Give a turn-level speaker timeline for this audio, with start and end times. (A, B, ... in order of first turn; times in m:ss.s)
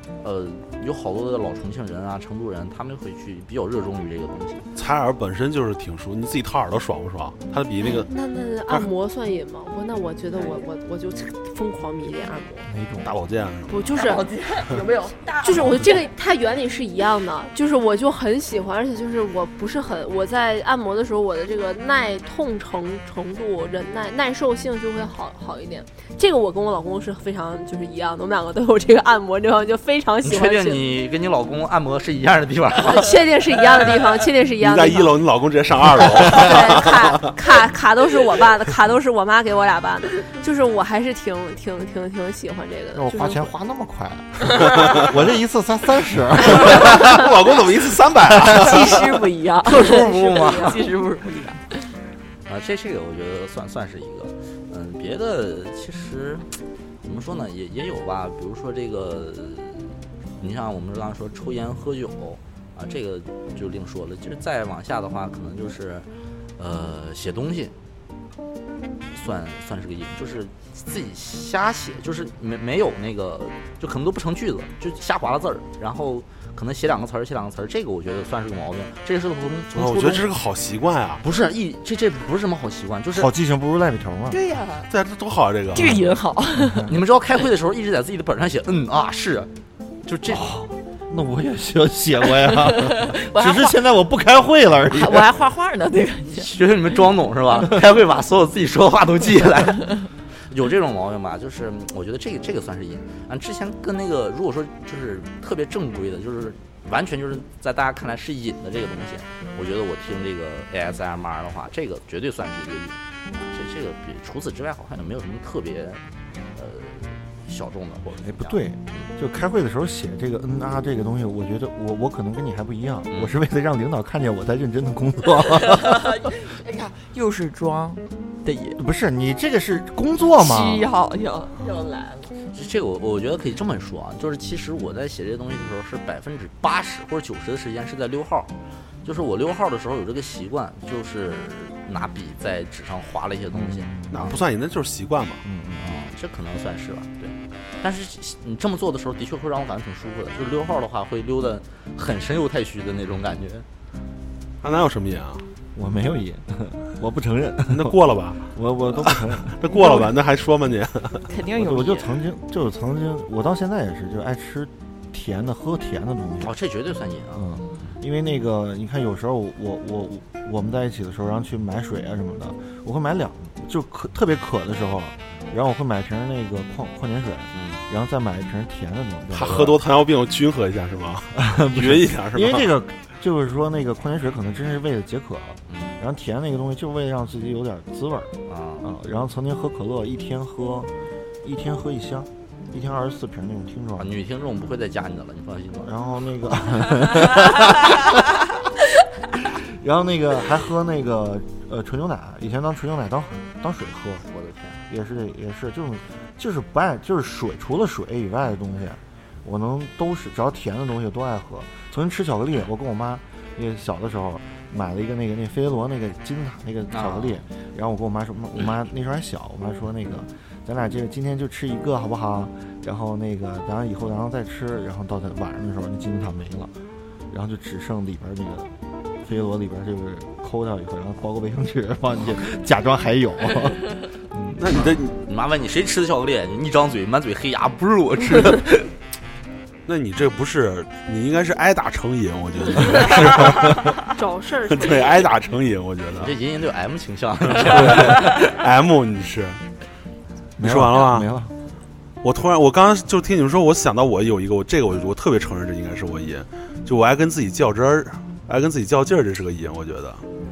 0:00.2-0:04.7 A
0:04.8-0:08.1 B
0:07.8-0:12.7 C
0:12.6-0:13.1 D
0:13.0-0:13.9 B
0:13.7-0:14.3 C
0:14.0-0:15.9 E
0:15.4-0:30.8 C
0:30.2-0:33.2 A
0:32.8-0:35.2 C
0:34.6-0:37.3 B
0:36.2-0:43.5 C
0:42.9-0:47.3 D
0:44.6-0:45.2 B
0:46.4-0:49.1 B
0:48.3-0:48.7 D
0:48.5-0:51.8 E
0:49.6-0:50.9 A
0:52.4-0:56.5 A
0:57.0-1:06.0 A
1:06.6-1:07.7 A
1:09.1-1:20.3 A
1:19.7-1:21.2 B
1:21.2-1:23.3 A
1:23.1-1:24.4 D
1:24.3-1:24.9 E
1:24.9-1:25.9 B
1:25.7-1:26.0 D
1:25.7-1:26.9 E
1:26.5-1:27.0 D
1:26.9-1:29.5 A
1:30.0-1:30.4 A
1:30.3-1:35.3 D
1:32.6-1:33.8 E
1:34.9-1:36.5 E
1:36.3-1:56.0 A
1:56.5-1:59.1 A
1:58.2-2:06.2 D
2:03.1-2:03.4 A
2:05.7-2:08.8 E
2:08.8-2:10.9 D
2:10.4-2:12.3 E
2:12.5-2:18.5 A
2:19.0-2:24.4 A
2:23.5-2:24.4 D
2:24.1-2:25.4 B
2:25.4-2:25.9 D
2:25.8-2:33.6 A
2:34.6-2:35.4 B
2:35.7-2:38.0 D
2:37.7-2:38.4 B
2:38.5-2:39.7 D
2:39.0-2:41.3 B
2:39.8-2:40.0 E
2:41.3-2:42.2 E
2:41.6-2:46.5 D
2:46.4-2:47.5 A
2:47.3-2:59.8 D
2:57.5-2:57.8 A
2:59.3-3:02.7 B
3:01.4-3:10.9 D
3:05.7-3:06.0 A
3:08.5-3:08.8 A
3:11.4-3:14.1 D
3:14.0-3:15.9 A
3:15.8-3:18.5 D
3:19.4-3:24.3 D
3:24.3-3:24.8 A
3:24.9-3:46.7 D
3:36.9-3:37.4 A
3:47.3-3:54.9 D
3:54.6-3:55.2 B
3:55.2-3:58.9 A
3:59.8-4:04.1 B
4:04.1-4:05.3 C
4:04.7-4:06.3 B
4:06.2-4:08.5 A
4:07.5-4:09.6 B
4:10.6-4:11.5 D
4:10.6-4:11.3 B
4:12.2-4:20.2 B